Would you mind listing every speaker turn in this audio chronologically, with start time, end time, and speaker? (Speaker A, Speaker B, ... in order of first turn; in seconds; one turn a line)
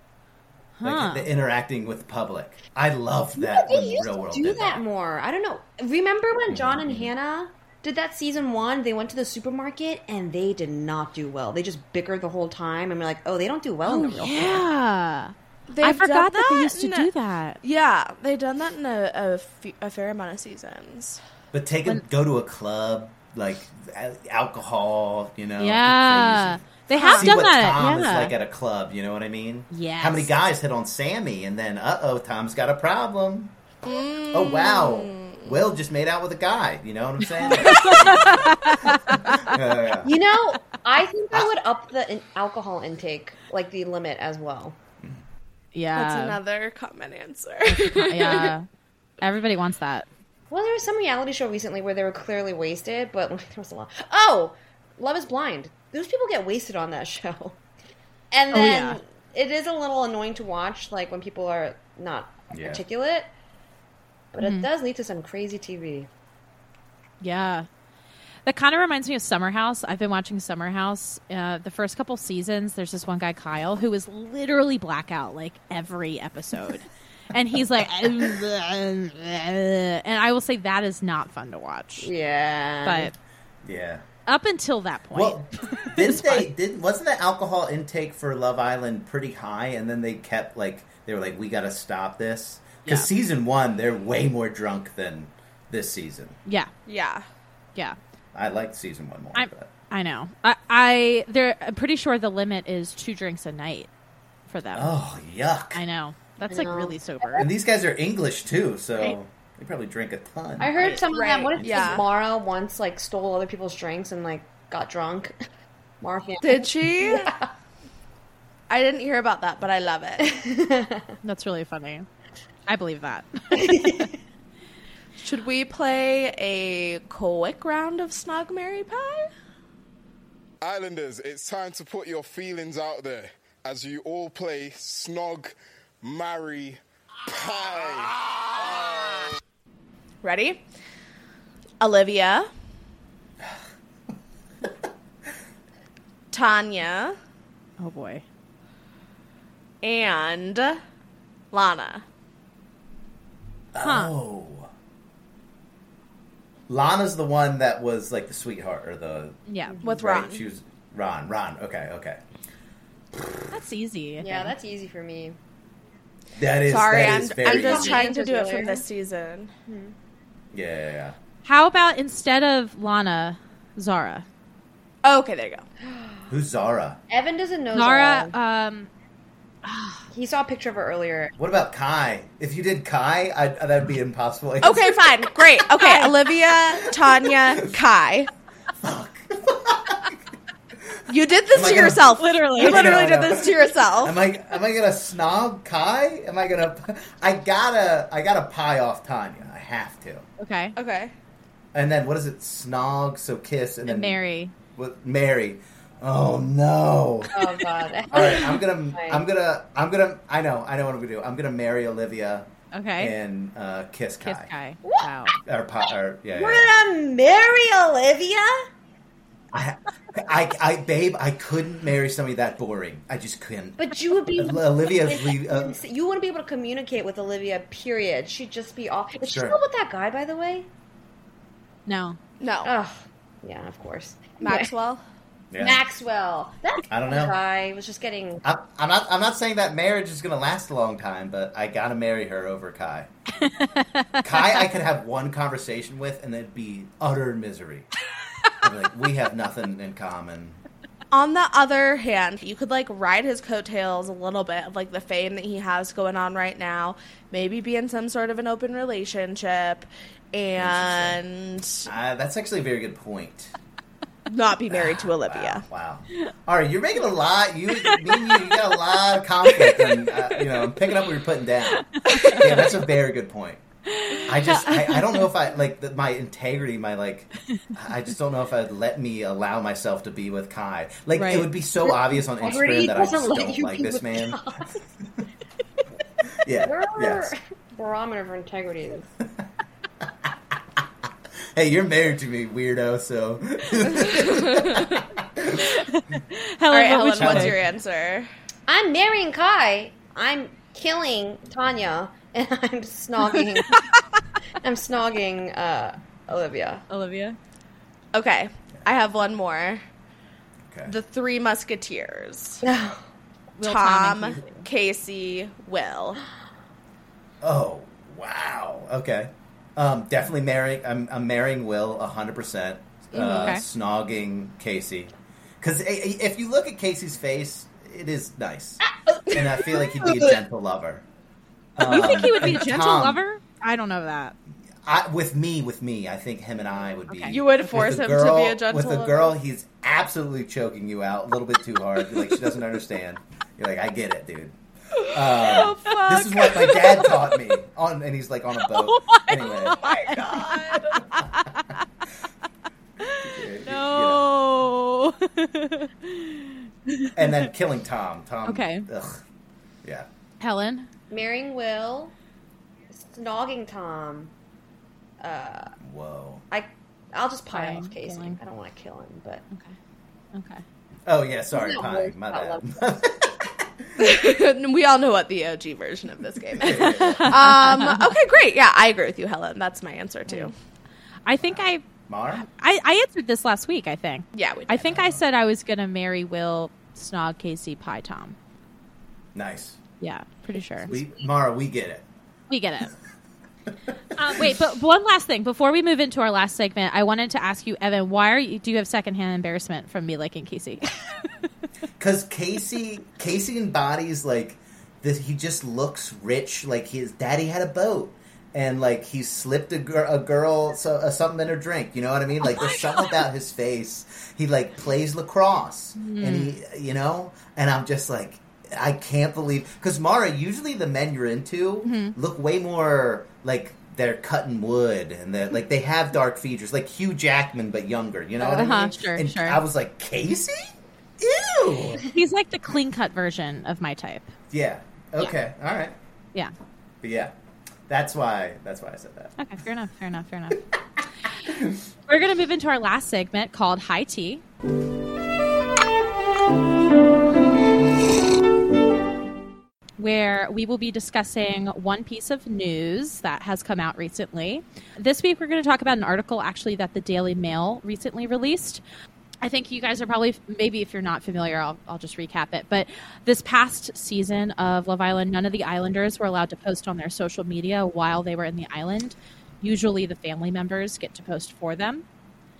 Speaker A: 0.8-1.3
Speaker B: 0.8-4.8
Speaker C: 3.4-14.7
Speaker B: 6.5-7.1
Speaker A: 13.8-17.6
Speaker D: 15.7-17.1
Speaker D: 17.6-21.2
Speaker B: 21.5-33.5
Speaker A: 25.6-28.3
Speaker D: 26.9-27.3
Speaker A: 29.7-30.3
Speaker D: 33.8-35.6
Speaker B: 34.3-40.1
Speaker A: 37.4-39.5
Speaker C: 40.0-44.8
Speaker A: 45.7-46.4
Speaker D: 46.0-48.5
Speaker A: 47.7-48.7
Speaker A: 49.2-50.1
Speaker C: 50.5-57.6
Speaker C: 58.3-63.3
Speaker A: 58.5-59.0
Speaker B: 62.5-62.8
Speaker C: 64.3-66.1
Speaker A: 64.4-64.7
Speaker A: 67.2-67.7
Speaker A: 68.5-82.1
Speaker B: 78.1-78.3
Speaker C: 82.0-83.1
Speaker A: 82.8-83.2
Speaker B: 83.6-84.0
Speaker A: 84.3-86.5
Speaker B: 85.1-96.4
Speaker A: 96.5-96.7
Speaker D: 96.9-97.2
Speaker B: 98.3-99.7
Speaker A: 99.3-103.9
Speaker A: 104.5-104.9
Speaker B: 104.8-105.8
Speaker A: 105.7-107.5
Speaker C: 106.5-107.5
Speaker B: 107.4-111.0
Speaker C: 110.6-115.3
Speaker D: 111.1-112.0
Speaker B: 111.6-112.0
Speaker C: 116.0-117.5
Speaker D: 116.4-117.3
Speaker D: 118.7-120.3
Speaker C: 120.2-121.1
Speaker A: 121.2-122.1
Speaker A: 122.7-124.1
Speaker C: 123.5-124.1
Speaker D: 125.2-129.3
Speaker E: 130.6-139.2
Speaker D: 140.2-140.6
Speaker D: 141.8-142.5
Speaker D: 146.3-147.2
Speaker A: 147.8-148.2
Speaker D: 149.8-150.8
Speaker D: 151.5-152.1
Speaker B: 153.7-154.7
Speaker A: 153.8-154.1
Speaker B: 156.7-162.2
Speaker A: 159.5-159.8
Speaker D: 159.8-160.4
Speaker A: 163.5-164.5
Speaker C: 164.2-165.4
Speaker B: 166.4-168.1
Speaker D: 166.7-169.5
Speaker C: 167.0-168.8
Speaker C: 169.7-169.9
Speaker B: 170.5-171.2
Speaker A: 171.4-174.3
Speaker D: 175.0-175.7
Speaker C: 175.8-176.3
Speaker B: 176.3-177.0
Speaker C: 177.1-178.3
Speaker A: 177.8-178.9
Speaker A: 179.7-180.0
Speaker C: 180.1-181.3
Speaker B: 181.4-185.1
Speaker D: 184.6-188.3
Speaker A: 185.8-186.1
Speaker B: 188.8-190.2
Speaker D: 191.1-194.2
Speaker B: 191.5-200.3
Speaker A: 192.1-193.1
Speaker A: 200.4-200.8
Speaker D: 200.8-201.1
Speaker B: 201.7-204.2
Speaker A: 203.9-204.5
Speaker B: 204.8-214.5
Speaker C: 207.3-209.2
Speaker A: 212.7-213.2
Speaker A: 214.2-215.3
Speaker B: 215.5-216.7
Speaker C: 216.3-218.7
Speaker B: 219.5-225.8
Speaker C: 223.8-230.7
Speaker B: 229.3-229.6
Speaker A: 231.9-232.2
Speaker D: 232.4-232.7
Speaker C: 232.6-234.7
Speaker D: 234.4-235.0
Speaker B: 235.5-235.8
Speaker C: 235.6-238.4
Speaker B: 236.9-237.4
Speaker B: 238.4-243.1
Speaker A: 243.4-244.6
Speaker B: 244.2-247.9
Speaker B: 248.6-250.6
Speaker D: 251.1-261.9
Speaker B: 260.6-261.2
Speaker B: 261.9-263.5
Speaker D: 264.3-265.6
Speaker B: 264.7-273.6
Speaker A: 267.8-268.6
Speaker A: 271.9-272.6
Speaker A: 273.9-275.2
Speaker B: 274.2-284.4
Speaker A: 281.1-281.5
Speaker C: 282.2-284.8
Speaker B: 286.4-287.3
Speaker C: 286.6-289.1
Speaker B: 291.6-295.7
Speaker D: 294.5-294.8
Speaker A: 295.6-297.6
Speaker D: 296.7-298.3
Speaker B: 297.2-297.6
Speaker C: 298.7-303.8
Speaker C: 304.6-306.8
Speaker A: 306.9-307.4
Speaker D: 308.1-309.8
Speaker D: 310.9-312.6
Speaker C: 312.6-313.0
Speaker A: 313.6-314.6
Speaker D: 313.6-316.2
Speaker B: 317.4-331.0
Speaker D: 323.2-323.5
Speaker A: 323.2-323.6
Speaker C: 329.3-330.3
Speaker B: 331.8-333.2
Speaker A: 331.9-334.4
Speaker B: 334.8-344.6
Speaker A: 337.1-337.7
Speaker D: 337.3-339.4
Speaker D: 345.0-346.9
Speaker B: 345.1-351.3
Speaker A: 348.7-349.9
Speaker D: 349.8-351.0
Speaker A: 351.1-351.8
Speaker A: 353.0-357.5
Speaker B: 353.2-354.3
Speaker B: 357.2-359.2
Speaker A: 358.5-358.9
Speaker A: 360.4-360.9
Speaker C: 361.1-362.1
Speaker C: 362.9-364.3
Speaker C: 365.2-365.7
Speaker B: 365.8-366.4
Speaker C: 366.5-369.4
Speaker A: 367.5-368.4
Speaker A: 369.5-369.8
Speaker A: 370.3-370.6
Speaker B: 371.1-373.9
Speaker C: 371.5-372.8
Speaker D: 374.0-380.5
Speaker B: 376.6-377.4
Speaker A: 376.6-378.0
Speaker A: 381.3-381.8
Speaker B: 381.4-382.5
Speaker A: 382.4-388.4
Speaker D: 384.4-384.9
Speaker B: 384.8-385.2
Speaker B: 389.4-389.8
Speaker A: 390.0-390.9
Speaker B: 390.9-392.1
Speaker A: 392.5-392.9
Speaker A: 394.2-401.4
Speaker B: 402.0-432.0
Speaker A: 412.5-413.2
Speaker A: 416.0-416.6
Speaker A: 421.8-422.1
Speaker A: 428.4-429.6
Speaker A: 432.0-434.3
Speaker B: 434.5-436.0
Speaker B: 437.0-437.3
Speaker B: 437.9-439.3
Speaker A: 439.4-440.6
Speaker B: 441.5-441.7
Speaker A: 442.1-444.4
Speaker A: 450.0-458.8
Speaker A: 459.4-472.0